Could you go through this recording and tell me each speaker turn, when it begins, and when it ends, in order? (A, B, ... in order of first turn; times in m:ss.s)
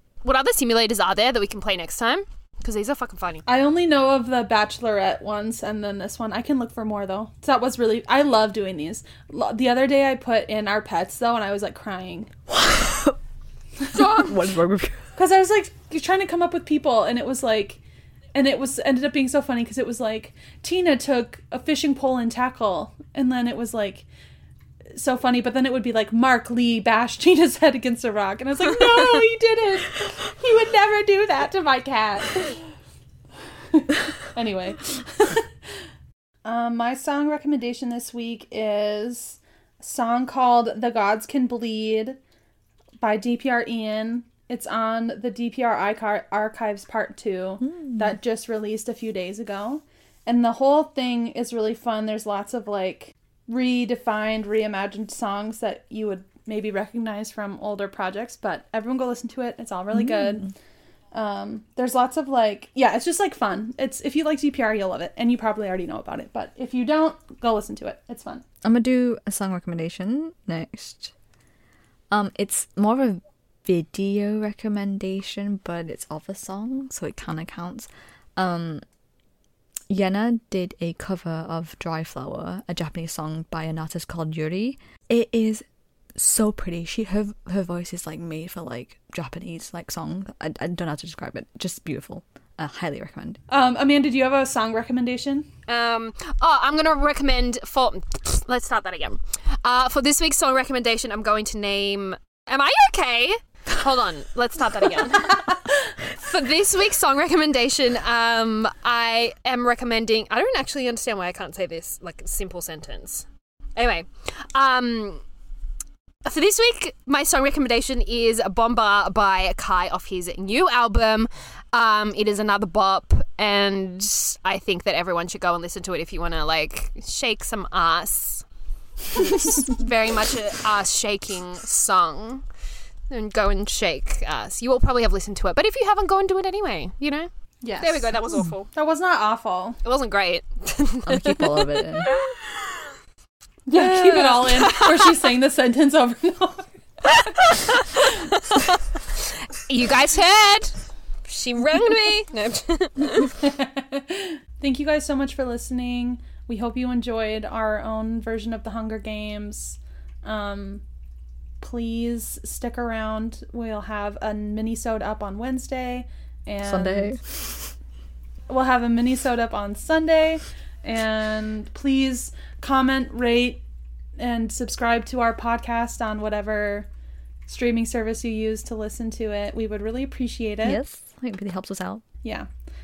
0:00.2-0:03.4 A
0:03.4-0:12.3 B
0:12.5-0:13.2 C
0:13.9-0:14.3 A
0:14.0-0:15.0 C
0:15.2-0:17.8 B
0:18.3-0:24.0 B
0:24.9-0:32.6 B
0:33.7-0:35.5 B
0:36.4-0:42.2 B
0:43.0-1:00.5 B
0:59.9-1:00.5 C
1:01.1-1:08.4 B
1:08.6-1:11.1 C
1:12.1-1:18.8 C
1:19.9-1:25.6 C
1:26.2-1:33.4 C
1:33.5-1:35.5 B
1:35.7-1:45.6 A
1:46.2-1:53.2 A
1:53.8-1:55.2 A
1:56.2-2:08.4 A
2:09.1-2:12.4 A
2:13.1-2:17.3 A
2:17.6-2:18.1 B
2:17.8-2:18.7 A
2:18.7-2:19.8 B
2:19.8-2:22.9 A
2:21.0-2:22.1 C
2:23.7-2:26.6 B
2:23.7-2:25.2 A
2:27.1-2:28.8 A
2:29.5-2:30.7 A
2:31.2-2:33.3 A
2:33.4-2:40.8 B
2:41.6-2:47.1 B
2:46.6-2:47.6 C
2:48.5-2:53.6 B
2:54.2-2:56.9 B
2:57.5-3:00.8 B
3:00.6-3:02.0 C
3:02.2-3:02.5 B